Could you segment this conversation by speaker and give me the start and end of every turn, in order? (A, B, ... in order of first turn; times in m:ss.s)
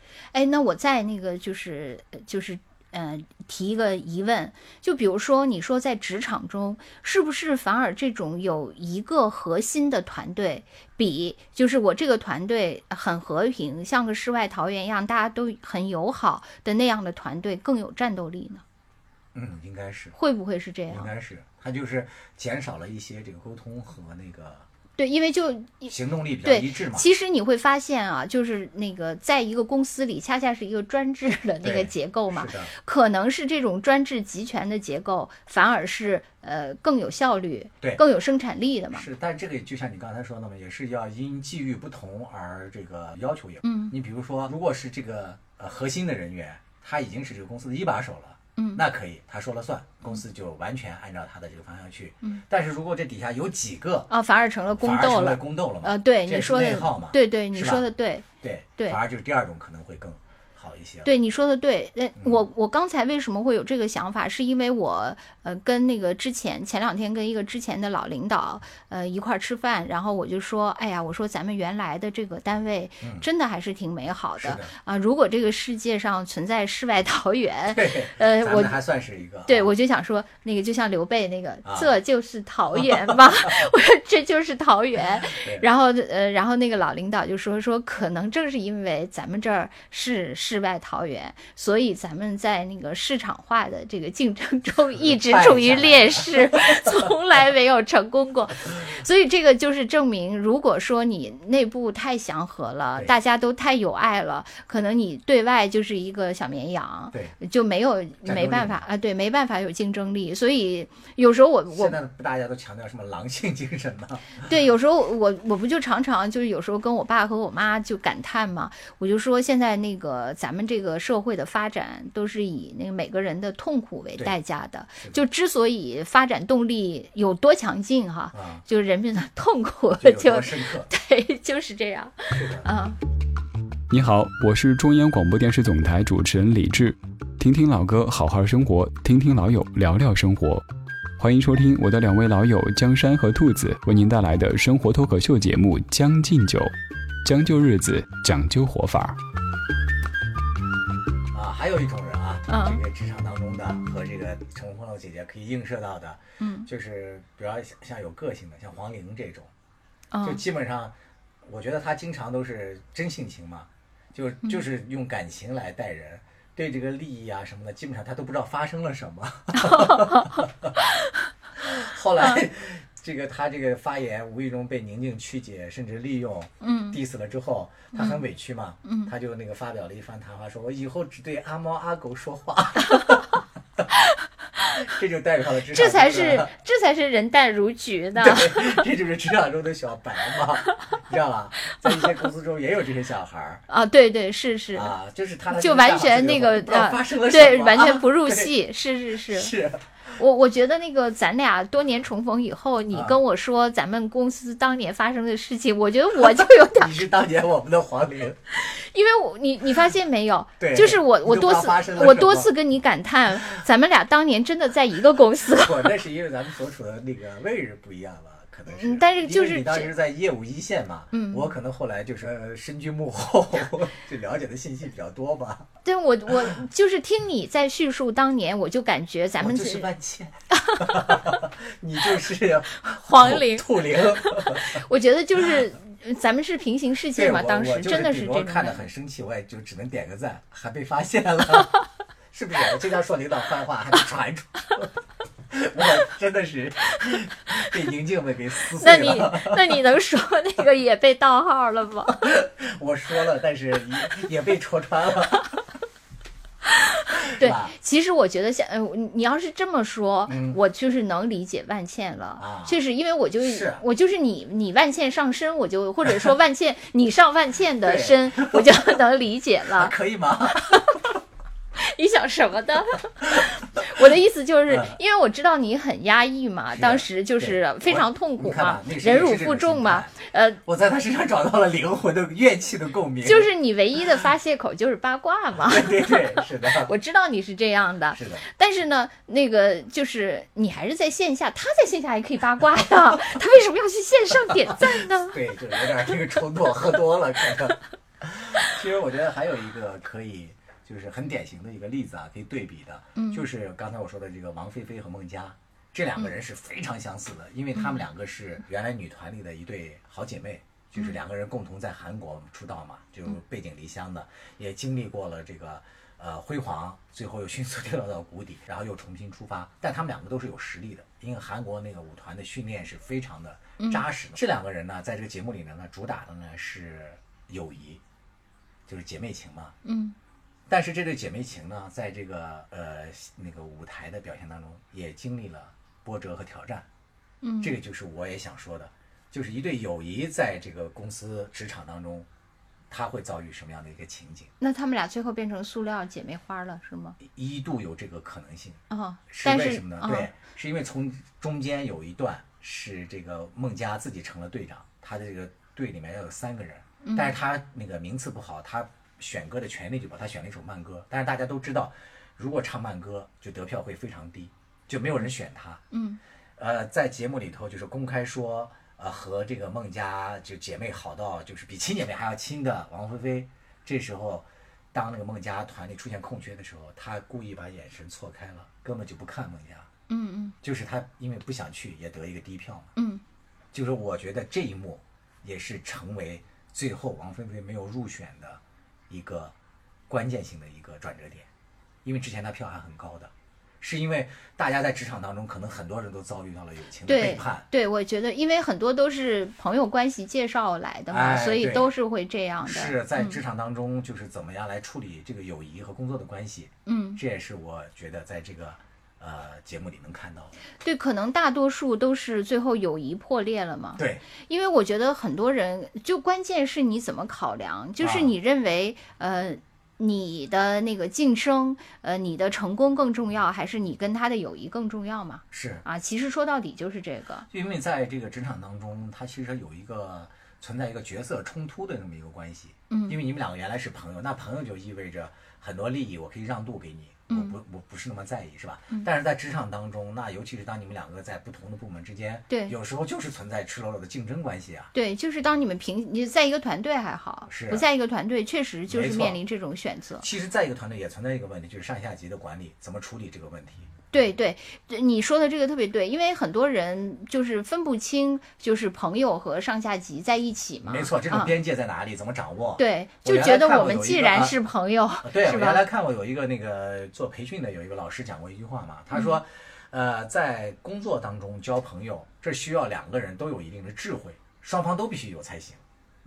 0:00.3-0:18.6 A
0:19.3-0:20.2 B
0:20.2-0:21.1 A
0:20.9-0:24.6 B
0:25.0-0:39.0 A
0:25.9-0:27.1 B
0:31.6-0:32.7 B
0:38.9-0:54.1 B
0:43.6-0:43.9 A
0:48.6-0:48.8 A
0:54.1-0:58.2 A
0:54.7-0:57.8 B
0:58.4-1:01.1 B
1:01.0-1:18.8 A
1:13.0-1:13.2 B
1:14.4-1:14.7 B
1:17.7-1:19.7 B
1:19.5-1:52.0 A
1:21.6-1:21.9 B
1:22.8-1:23.2 B
1:25.2-1:25.6 B
1:35.0-1:37.0 B
1:48.2-1:48.8 B
1:51.7-1:54.4 B
1:54.4-2:13.0 A
2:08.3-2:08.6 B
2:10.0-2:10.9 B
2:12.3-2:12.7 B
2:13.9-2:20.6 C
2:21.2-2:29.2 C
2:31.3-2:39.5 B
2:32.5-2:32.8 A
2:36.4-2:36.7 A
2:40.1-2:40.4 A
2:40.2-2:50.8 B
2:49.6-2:50.3 A
2:50.8-2:51.1 A
2:51.6-3:03.4 B
2:52.2-2:52.4 A
2:56.6-2:57.0 A
2:57.9-2:58.2 A
2:58.8-2:59.1 A
3:04.7-3:06.5 B
3:05.7-3:08.8 A
3:08.2-3:13.6 B
3:13.7-3:15.0 A
3:14.7-3:18.5 B
3:15.5-3:19.5 A
3:19.3-3:19.8 B
3:20.1-3:27.0 A
3:22.9-3:23.2 B
3:26.2-3:28.6 B
3:28.6-3:35.9 A
3:30.6-3:32.5 B
3:35.4-3:45.7 B
3:38.7-3:39.9 A
3:41.1-3:41.5 A
3:45.8-3:49.9 A
3:49.4-3:54.8 B
3:50.5-3:51.2 A
3:52.9-3:58.8 A
3:57.1-4:01.8 B
4:02.3-4:04.9 B
4:05.5-4:09.8 B
4:08.8-4:12.2 A
4:12.1-4:15.6 B
4:16.6-4:29.9 A
4:17.1-4:17.7 B
4:20.3-4:20.6 B
4:22.4-4:22.8 B
4:23.4-4:23.8 B
4:27.8-4:28.9 B
4:29.7-4:31.0 B
4:30.6-4:30.9 A
4:31.8-4:40.6 A
4:33.4-4:33.8 B
4:34.7-4:35.0 B
4:36.7-4:43.5 B
4:43.2-4:55.4 A
4:45.5-4:46.9 B
4:48.1-4:48.5 B
4:54.7-5:28.0 B
5:03.2-5:03.4 A
5:07.8-5:08.0 A
5:23.8-5:24.0 A
5:28.9-5:29.7 B
5:29.8-5:30.2 A
5:30.7-5:36.8 B
5:37.4-5:37.8 A
5:37.6-5:42.3 B
5:42.9-5:44.5 B
5:44.6-5:47.2 A
5:47.2-6:05.8 B
5:48.9-5:50.3 A
5:57.0-5:57.4 A
6:05.9-6:06.2 A
6:06.6-6:19.9 B
6:20.1-6:20.6 A
6:20.6-6:22.9 B
6:23.0-6:23.2 A
6:23.7-6:29.5 B
6:30.1-6:31.5 B
6:32.0-6:37.6 B
6:37.0-6:43.4 A
6:41.1-6:41.9 B
6:42.6-6:50.5 B
6:46.8-6:47.2 A
6:50.8-7:07.4 A
6:54.0-6:54.2 B
6:58.0-6:58.3 B
7:05.5-7:05.8 B
7:07.5-7:24.9 B
7:12.9-7:13.2 A
7:17.3-7:17.6 A
7:22.5-7:22.7 A
7:24.9-7:30.2 A
7:27.5-7:27.8 B
7:28.9-7:29.4 B
7:30.2-7:34.1 B
7:34.1-7:41.5 A
7:40.8-7:44.6 B
7:42.8-7:45.8 A
7:45.2-7:55.8 B